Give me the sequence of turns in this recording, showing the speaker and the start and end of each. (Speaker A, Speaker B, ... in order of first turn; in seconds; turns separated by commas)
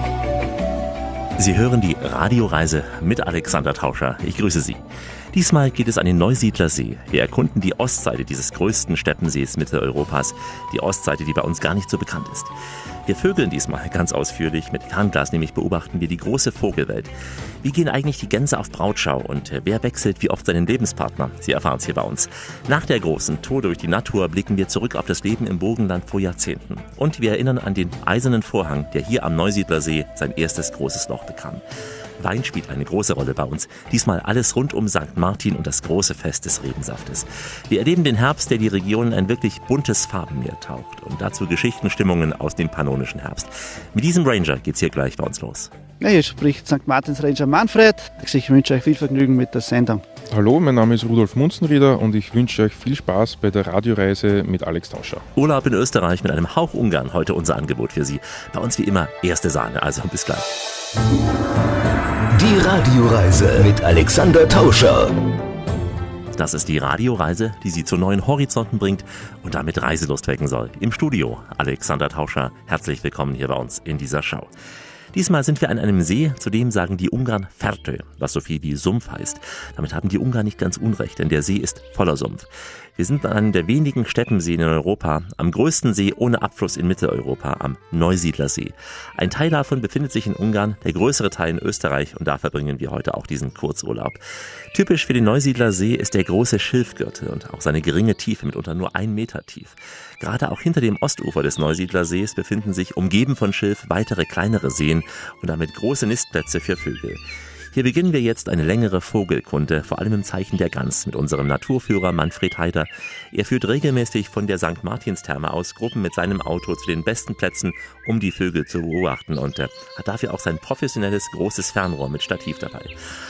Speaker A: 1.4-4.8, Speaker A: 5.3-12.5, Speaker A: 13.1-31.6, Speaker A: 32.2-45.7, Speaker B: 46.0-50.0, Speaker C: 50.3-55.2, Speaker A: 55.4-60.5, Speaker D: 62.3-65.1, Speaker A: 66.3-74.5, Speaker A: 75.1-94.2, Speaker A: 94.7-107.2, Speaker A: 107.7-122.9